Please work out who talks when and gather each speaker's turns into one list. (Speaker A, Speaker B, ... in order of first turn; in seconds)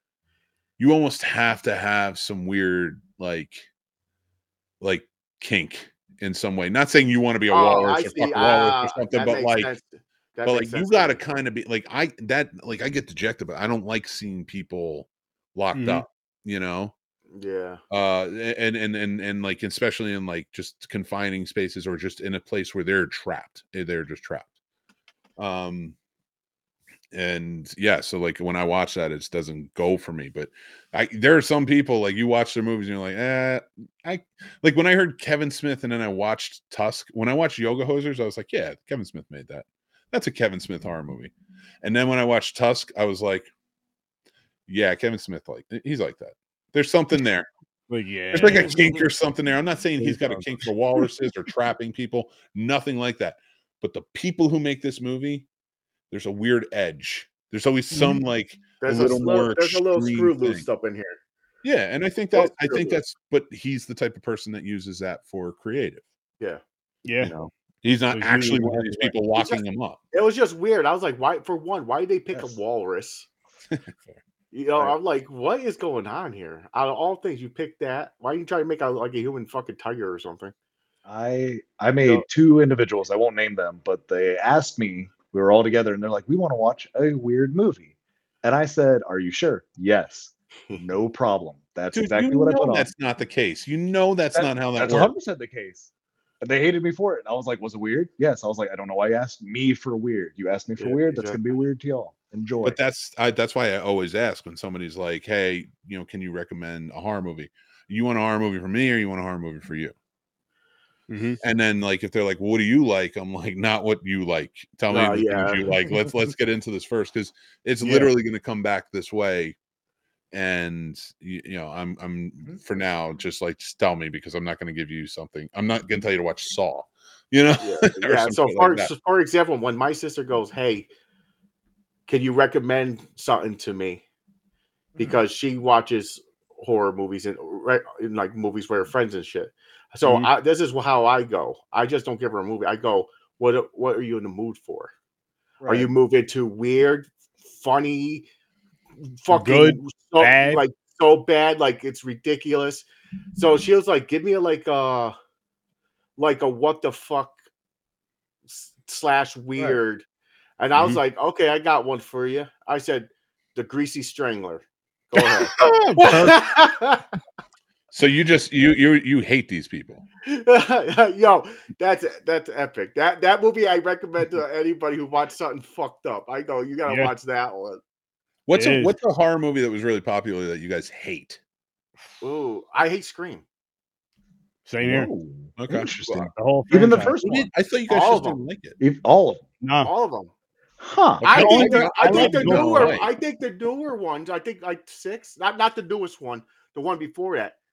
Speaker A: 0.8-3.7, 4.8-9.7, 10.5-16.9, 17.9-24.5, 25.4-26.0, 27.1-43.5, 44.7-47.5, 48.3-55.5, 56.1-60.7, 61.6-66.0, 67.2-70.0, 73.7-74.2, 91.9-95.1, 102.6-110.0, 111.4-119.6, 120.3-128.9, 160.8-161.0, 167.9-170.1, 178.5-181.4, 185.6-186.3, 187.2-188.8, 191.2-193.1
Speaker B: 7.5-11.2, 17.3-17.8, 48.5-48.8, 58.8-61.2, 62.3-63.0, 69.4-73.3, 74.5-80.5, 100.8-101.4, 114.9-115.8, 127.6-130.9, 132.1-134.0, 135.0-144.9, 145.7-148.3, 149.2-155.2, 156.2-157.3, 158.5-160.1, 160.6-167.1, 170.3-177.8, 182.2-183.4, 187.9-188.4, 189.8-190.3, 191.2-197.6
Speaker C: 15.7-16.1, 47.9-48.9, 50.0-50.4, 67.0-67.3, 68.1-69.2, 111.1-111.4, 140.0-140.3, 149.3-150.6, 165.5-166.4, 176.9-177.1, 178.5-178.9, 184.7-185.1, 186.3-187.2, 189.6-189.9, 192.0-192.9
Speaker D: 72.3-72.6, 81.1-92.9, 94.3-95.9, 96.4-102.8, 135.0-135.2, 145.6-145.9, 184.8-187.5, 188.8-189.4, 190.8-192.9